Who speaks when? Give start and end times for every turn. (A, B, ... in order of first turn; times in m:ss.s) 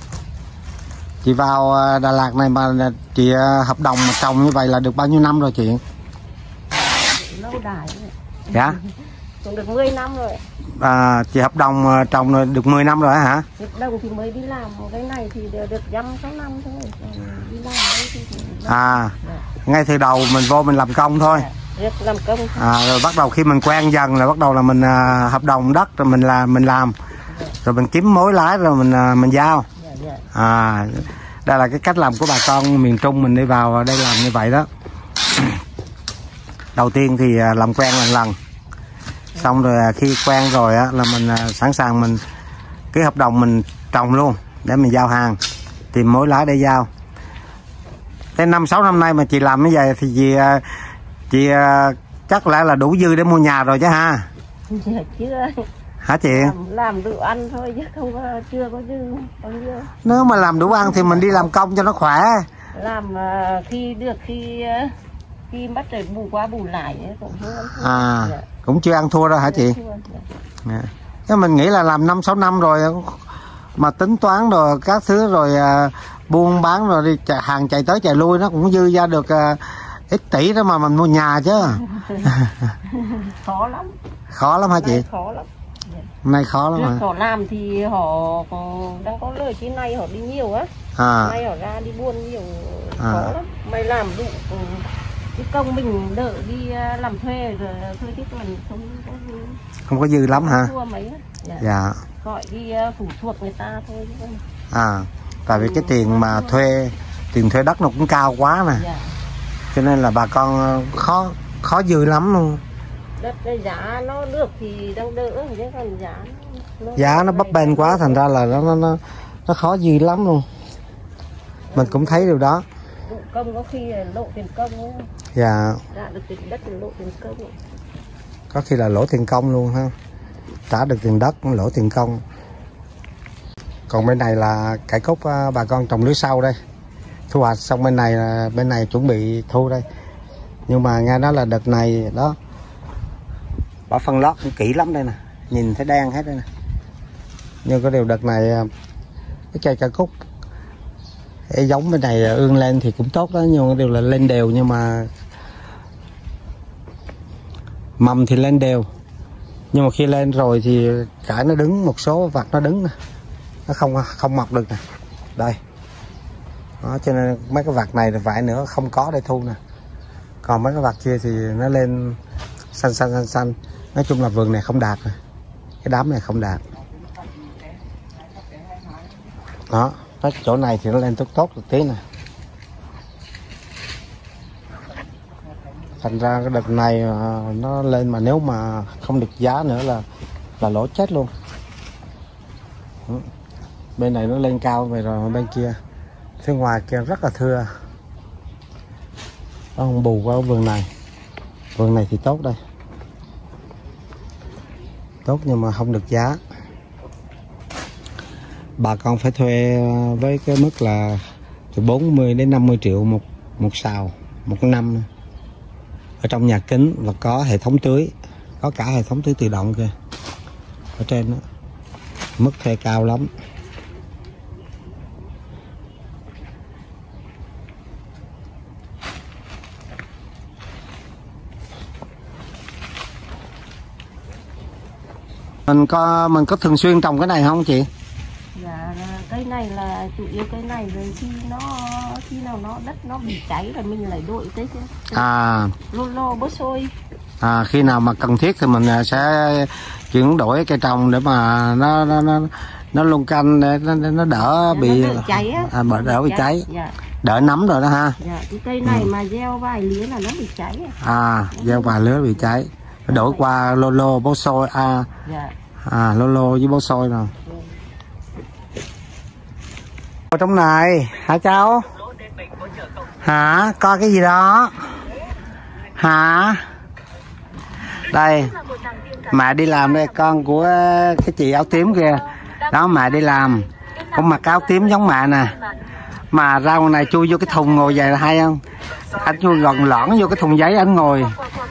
0:01.2-0:05.8 A
0:07.0-0:08.8 B
0:09.4-0:10.4 B
0:10.8-0:13.5 A
0:13.6-0:19.4 B
0:18.7-0:21.5 A
0:21.3-0:22.7 B
0:22.6-0:27.0 A
0:27.6-0:29.7 A
0:29.8-0:30.2 B
0:30.3-0:34.7 A
0:36.8-0:38.4 A
0:39.4-0:42.2 A
0:42.9-0:45.4 A
0:45.9-0:46.9 A
0:48.4-0:50.6 A
0:51.3-0:54.3 A
0:54.7-0:55.7 B
0:56.0-0:56.6 A
0:56.3-1:01.4 B
1:00.0-1:02.5 A
1:02.7-1:05.0 B
1:05.5-1:08.5 B
1:07.7-1:09.8 A
1:09.4-1:10.3 B
1:10.6-1:13.2 A
1:13.8-1:22.7 A
1:21.6-1:22.3 B
1:22.8-1:24.0 B
1:24.3-1:25.0 A
1:24.7-1:26.1 B
1:26.2-1:27.0 A
1:26.8-1:39.6 B
1:31.0-1:31.4 A
1:33.0-1:33.3 A
1:39.9-1:40.7 A
1:40.3-1:41.7 B
1:41.6-1:42.0 A
1:42.2-1:44.4 B
1:44.7-1:48.8 A
1:45.5-1:46.8 B
1:48.8-1:49.1 B
1:49.7-1:52.6 A
1:53.2-1:58.3 B
1:57.0-2:00.5 A
2:01.7-2:02.4 B
2:01.8-2:02.6 A
2:03.1-2:05.1 B
2:05.4-2:05.8 A
2:05.9-2:07.6 B
2:08.5-2:09.9 A
2:10.7-2:12.2 A
2:13.9-2:16.6 A
2:17.3-2:19.9 A
2:20.7-2:22.4 A
2:23.9-2:26.5 A
2:27.6-2:28.7 A
2:29.5-2:30.1 A
2:31.5-2:35.1 A
2:38.0-2:38.9 A
2:39.7-2:42.9 A
2:43.7-2:44.8 A
2:46.8-2:49.6 A
2:50.4-2:52.2 A
2:52.7-2:55.2 A
2:55.8-2:56.6 A
2:59.7-3:02.0 A
3:06.0-3:10.0 A
3:10.6-3:11.3 A
3:14.0-3:15.8 A
3:16.4-3:17.7 A
3:19.8-3:20.9 A
3:21.8-3:22.6 A
3:25.2-3:26.4 A
3:28.8-3:31.2 A
3:31.7-3:35.1 A
3:36.2-3:39.9 A
3:41.0-3:41.4 A
3:42.4-3:43.3 A
3:55.7-3:57.9 A
3:58.6-4:05.3 B
4:05.1-4:05.7 A
4:05.9-4:06.9 B
4:07.4-4:16.6 A
4:14.3-4:17.0 B
4:17.2-4:18.2 A
4:18.2-4:21.0 B
4:18.8-4:19.1 A
4:21.0-4:25.1 A
4:21.5-4:22.5 B
4:23.1-4:23.5 B
4:25.2-4:25.6 B
4:25.8-4:27.3 A
4:30.3-4:31.9 A
4:33.2-4:34.8 A
4:36.0-4:36.6 A
4:38.1-4:38.6 A
4:39.3-4:45.6 A
4:46.3-4:48.6 A
4:49.2-4:51.4 A